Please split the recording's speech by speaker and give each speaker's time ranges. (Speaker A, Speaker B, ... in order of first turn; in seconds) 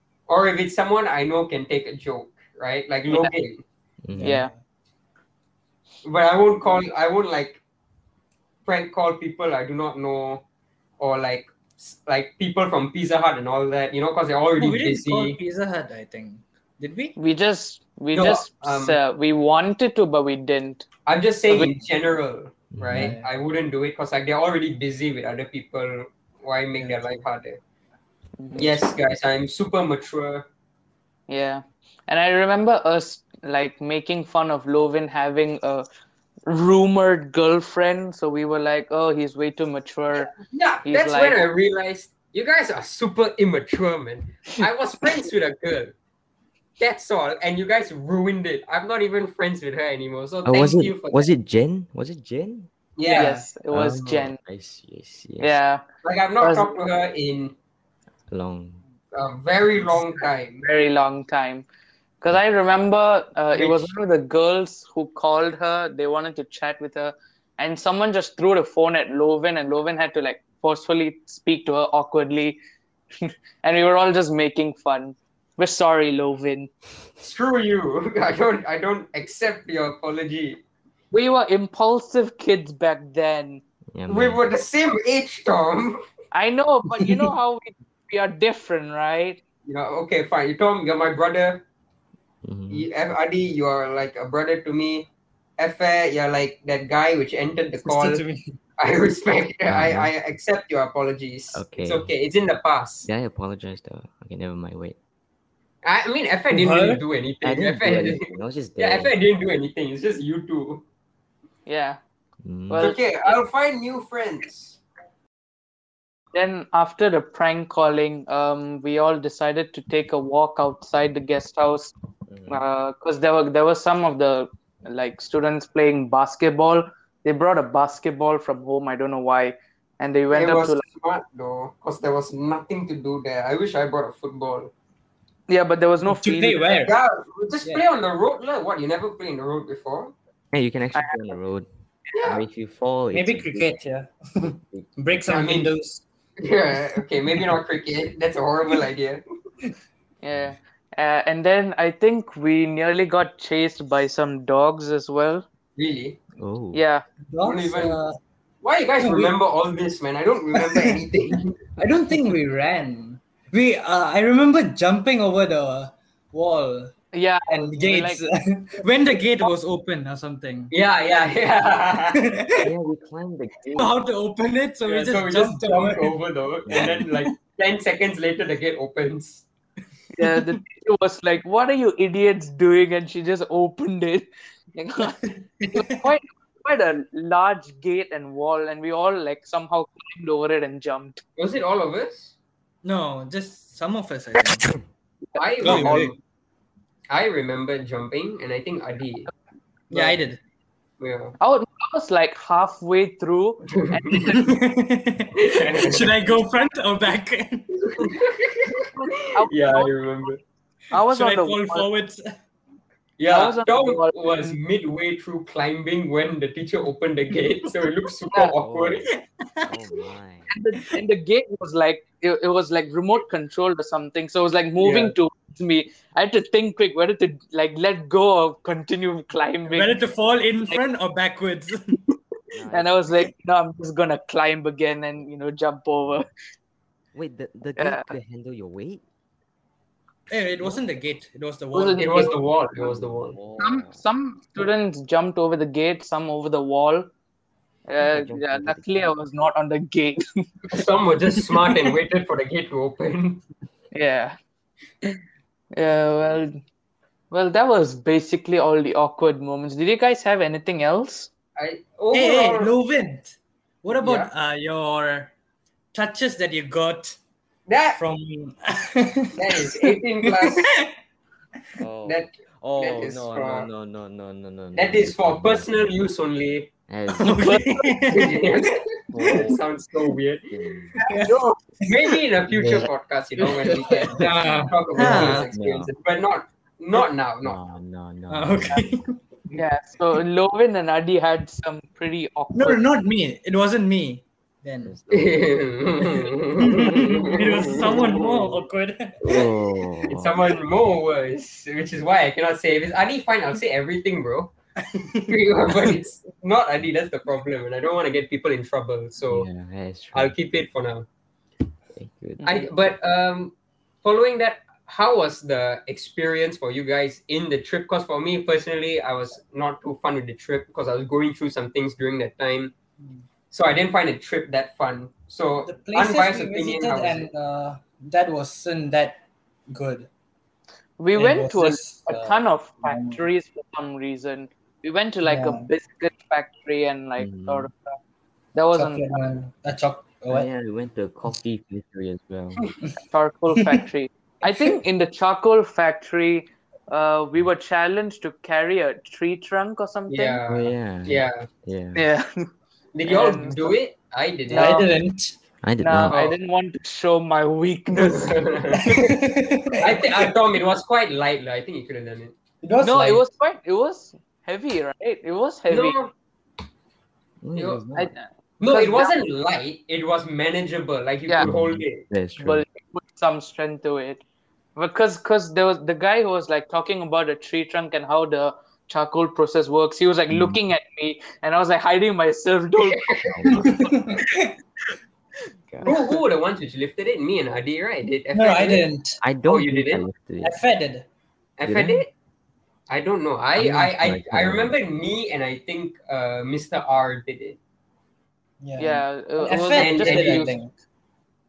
Speaker A: 0.3-3.6, 6.0-7.6, 8.6-10.4, 11.0-15.4, 18.1-19.0, 21.1-27.6, 28.6-30.5, 40.3-45.9, 46.8-51.3, 53.0-53.5, 56.0-57.5, 59.1-60.6, 63.5-63.9, 77.2-80.6, 84.1-86.0, 89.7-91.6, 92.7-98.2, 98.8-103.1, 105.8-108.3, 108.8-110.8, 112.8-114.8, 130.3-134.7, 136.8-140.1, 142.2-142.4, 145.2-145.7, 146.4-149.2, 155.8-156.2, 157.4-158.0, 158.6-161.6, 170.7-172.2, 174.8-179.4, 191.4-192.3, 195.3-196.2, 197.1-199.3, 201.0-201.3, 203.7-204.3, 205.3-206.2, 207.8-208.6, 209.5-210.4, 213.2-219.1, 224.8-225.1, 241.7-243.4, 250.7-253.4, 261.6-262.7, 263.9-264.3, 267.7-268.0, 269.4-270.7, 272.0-273.7, 274.7-276.7, 278.1-280.5, 281.8-287.6, 295.1-298.5, 300.1-304.5, 305.3-309.5, 310.1-311.1, 312.4-313.5, 314.0-322.7, 323.5-327.3, 350.1-351.4, 352.9-354.8, 356.1-356.4, 358.0-358.9, 359.8-362.3, 365.7-366.1, 367.6-367.8, 368.6-372.0, 383.1-383.7, 385.8-388.9, 389.4-390.0, 391.6-392.1, 392.9-397.6, 399.7-400.5
Speaker B: 4.0-4.4, 22.7-23.1, 50.4-52.7, 53.7-55.6, 58.3-58.8, 83.9-84.4, 92.4-92.9, 99.7-100.1, 101.5-102.1, 103.0-105.0, 107.4-109.2, 112.4-112.9, 122.3-122.6, 140.5-141.7, 142.2-143.8, 144.7-144.9, 156.4-156.8, 172.6-174.0, 176.7-177.1, 218.6-219.2, 219.7-220.5, 232.5-233.1, 237.1-239.0, 240.6-241.0, 242.7-244.0, 248.0-249.1, 271.8-275.9, 276.9-277.5, 279.1-279.6, 280.5-280.9, 282.5-282.9, 285.0-285.9, 287.4-289.1, 294.8-295.7, 299.2-300.3, 309.3-310.3, 311.9-312.4, 337.2-337.7, 340.3-342.7, 350.5-352.0, 355.6-356.2, 367.4-368.1, 371.4-372.6, 380.3-380.6, 385.7-385.9, 389.2-390.6, 391.6-392.0, 393.6-394.7
Speaker C: 4.2-4.6, 14.6-17.1, 22.9-23.2, 26.8-27.0, 97.8-98.5, 106.5-107.0, 136.0-136.9, 143.1-146.0, 157.3-158.2, 159.0-159.3, 160.5-161.0, 161.8-166.9, 167.5-170.7, 172.1-172.7, 173.7-176.1, 176.7-177.2, 180.2-180.5, 185.6-185.9, 192.8-194.7, 195.6-196.1, 199.9-200.4, 204.3-207.7, 210.9-212.2, 219.4-220.0, 229.7-232.0, 240.3-242.2, 262.1-265.3, 265.9-267.2, 267.9-270.9, 277.1-278.6, 281.1-281.9, 283.9-285.5, 288.3-289.2, 292.5-294.9, 296.6-299.2, 304.9-305.3, 325.6-330.1, 331.1-333.2, 335.2-335.7, 338.7-340.5, 343.5-343.8, 354.5-355.4, 358.7-360.3, 362.6-363.2, 383.5-384.5, 388.3-389.2, 390.4-391.1, 398.6-400.7
Speaker D: 4.2-4.5, 17.2-20.8, 21.5-21.7, 28.4-28.9, 31.3-35.9, 36.5-41.4, 53.0-54.4, 55.4-55.8, 56.4-56.8, 60.6-61.6, 62.2-72.6, 73.6-76.7, 81.1-83.6, 86.3-89.4, 111.7-112.0, 112.7-113.3, 116.3-121.9, 122.5-130.8, 135.5-136.9, 140.9-141.2, 150.2-155.4, 156.7-157.0, 167.1-168.2, 180.1-191.2, 195.3-196.1, 201.4-204.6, 208.9-209.9, 210.9-211.9, 213.3-214.6, 220.5-230.0, 232.7-236.2, 237.8-238.1, 241.7-242.4, 243.6-247.1, 247.9-250.5, 253.9-254.3, 255.7-256.6, 257.3-261.3, 277.4-278.0, 281.0-281.6, 289.5-292.8, 312.4-312.7, 331.0-337.9, 338.5-339.2, 343.0-350.4, 351.9-352.2, 353.0-353.7, 354.5-354.9, 355.8-359.1, 362.8-365.9, 367.9-369.1, 372.4-374.2, 374.8-383.0, 385.9-386.2, 398.8-400.6